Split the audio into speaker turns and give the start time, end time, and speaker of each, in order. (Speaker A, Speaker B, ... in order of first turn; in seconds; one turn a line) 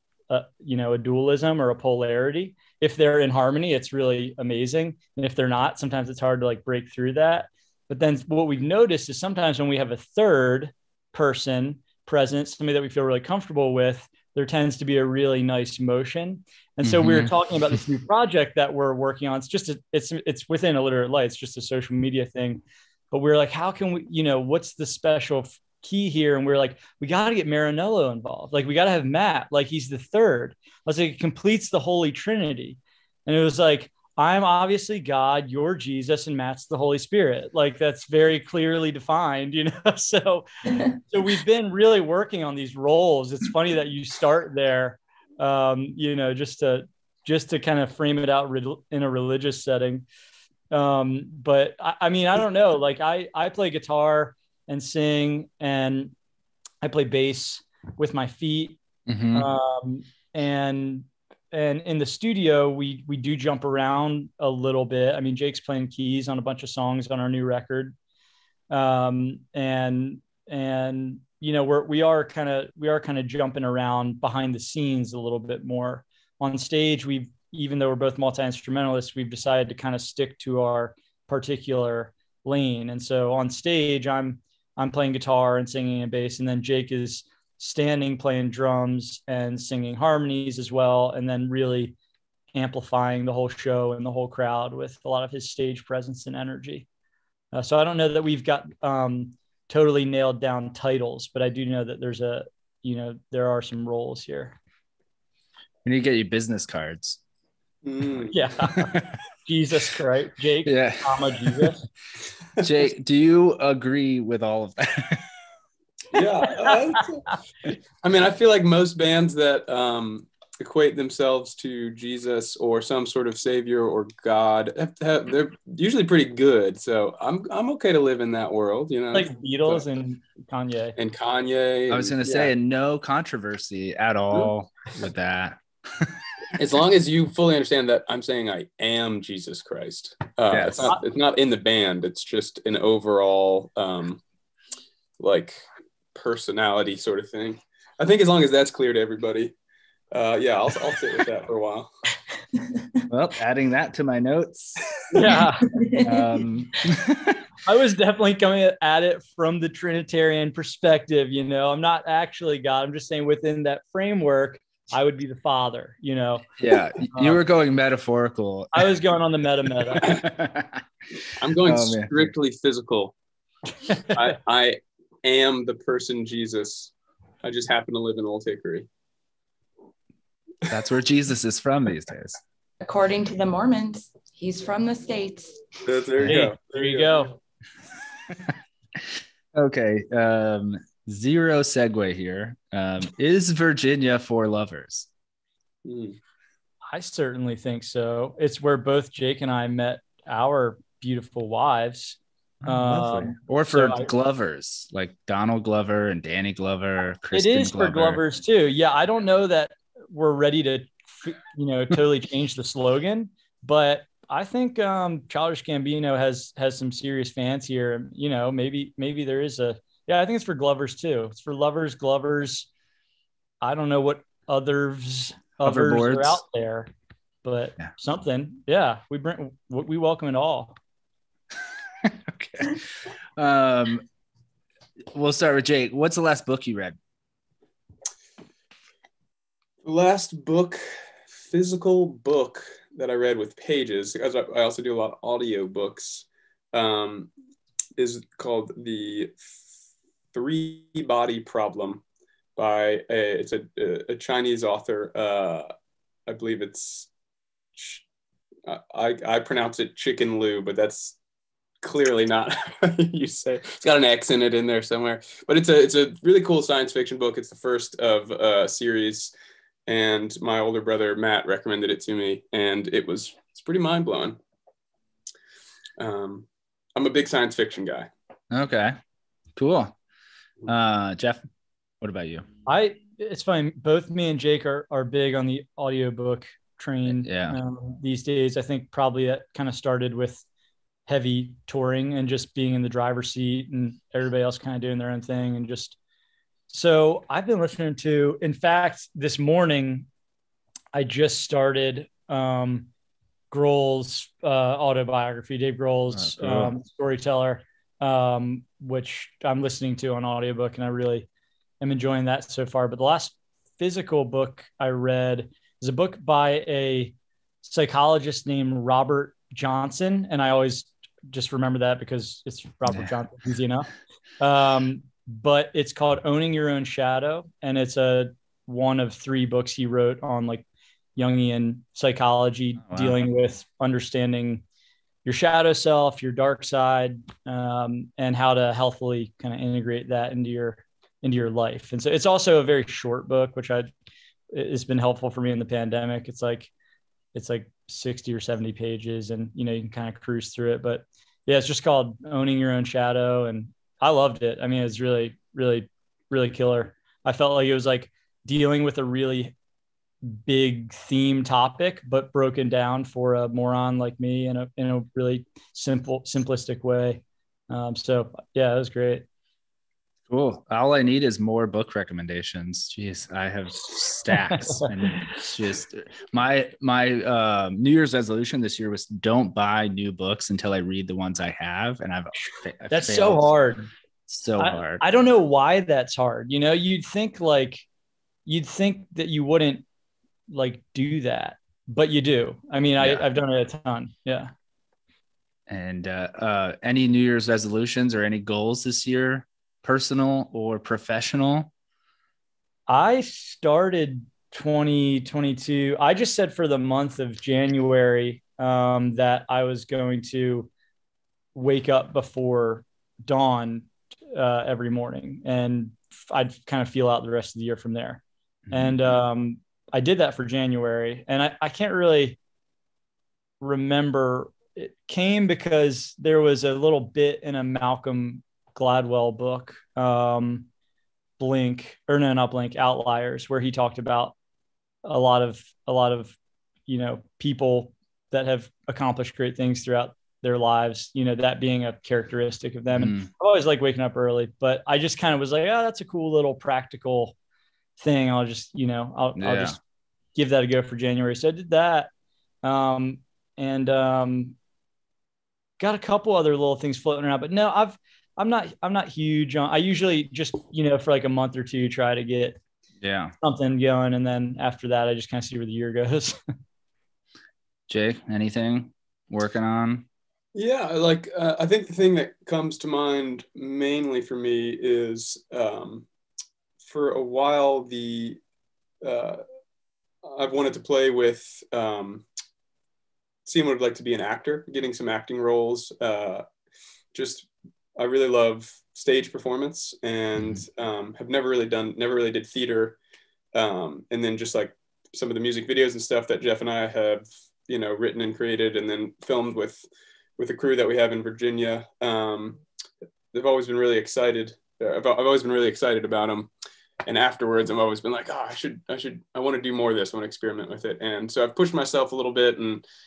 Speaker A: 0.3-50.0
Speaker B: 16.8-17.3
Speaker A: 50.7-56.1
Speaker A: 56.8-58.8
Speaker B: 59.1-59.5
Speaker A: 59.3-67.9
Speaker A: 68.7-91.9
Speaker A: 92.5-96.9
Speaker A: 97.5-104.6
Speaker B: 105.8-107.2
Speaker C: 107.8-108.3
Speaker A: 108.3-111.8
Speaker B: 108.7-109.2
Speaker B: 110.6-111.7
Speaker B: 112.6-115.3
Speaker C: 116.1-129.8
Speaker A: 116.7-117.0
Speaker A: 129.1-130.9
Speaker C: 131.0-132.5
Speaker B: 131.9-136.2
Speaker C: 136.5-144.2
Speaker B: 140.5-140.9
Speaker C: 145.2-145.6
Speaker C: 146.1-149.5
Speaker C: 150.1-151.9
Speaker B: 153.1-154.9
Speaker D: 155.1-156.4
Speaker A: 155.2-155.7
Speaker B: 156.0-157.4
Speaker A: 157.6-166.4
Speaker B: 166.6-168.9
Speaker A: 167.1-167.4
Speaker A: 168.7-170.2
Speaker B: 169.9-170.8
Speaker C: 171.3-173.1
Speaker B: 171.6-172.3
Speaker C: 174.1-176.9
Speaker C: 177.4-178.9
Speaker B: 180.7-182.4
Speaker D: 182.8-185.6
Speaker C: 185.8-187.2
Speaker A: 186.2-187.3
Speaker B: 188.9-195.1
Speaker C: 195.8-196.2
Speaker A: 196.9-204.1
Speaker B: 202.6-208.2
Speaker A: 207.3-222.7
Speaker A: 223.6-226.9
Speaker B: 225.6-226.4
Speaker A: 227.4-230.7
Speaker B: 232.0-232.8
Speaker B: 233.4-234.0
Speaker B: 235.1-237.0
Speaker C: 239.8-240.8
Speaker C: 241.3-247.3
Speaker C: 248.0-249.3
Speaker C: 250.3-252.0
Speaker C: 252.6-255.7
Speaker C: 256.3-257.1
Speaker C: 257.8-258.0
Speaker C: 258.6-261.2
Speaker C: 261.8-269.3
Speaker C: 269.9-274.4
Speaker C: 276.0-278.1
Speaker B: 278.5-278.9
Speaker B: 279.6-279.9
Speaker B: 280.6-281.4
Speaker B: 282.0-282.4
Speaker A: 282.6-290.4
Speaker B: 287.1-287.6
Speaker A: 291.1-296.0
Speaker A: 296.7-300.1
Speaker A: 300.9-302.9
Speaker A: 303.5-311.3
Speaker B: 306.1-306.7
Speaker A: 311.8-330.6
Speaker A: 331.1-334.6
Speaker B: 332.9-333.2
Speaker A: 335.2-343.9
Speaker A: 344.5-346.7
Speaker A: 347.3-359.5
Speaker A: 360.2-369.2
Speaker B: 370.3-383.5
Speaker A: 382.9-383.9
Speaker B: 384.3-385.0
Speaker A: 384.6-387.8
Speaker A: 388.4-389.8
Speaker A: 390.5-394.5
Speaker B: 393.0-393.2
Speaker B: 395.7-401.7
Speaker A: 402.9-410.7
Speaker A: 411.5-418.2
Speaker B: 418.7-419.1
Speaker A: 418.7-422.4
Speaker A: 423.6-430.7
Speaker A: 431.4-434.3
Speaker A: 435.0-436.4
Speaker A: 436.9-447.3
Speaker B: 442.9-443.3
Speaker A: 448.0-449.8
Speaker B: 449.4-449.8
Speaker A: 450.3-452.1
Speaker A: 452.6-454.6
Speaker A: 455.8-462.6
Speaker B: 463.0-463.3
Speaker A: 463.4-466.4
Speaker B: 467.9-470.1
Speaker C: 470.5-476.1
Speaker C: 476.8-478.4
Speaker C: 479.0-479.4
Speaker C: 480.2-482.2
Speaker C: 483.4-486.4
Speaker C: 487.1-493.0
Speaker B: 490.4-490.6
Speaker C: 493.5-499.9
Speaker C: 500.4-502.6
Speaker C: 503.3-506.5
Speaker C: 507.0-512.8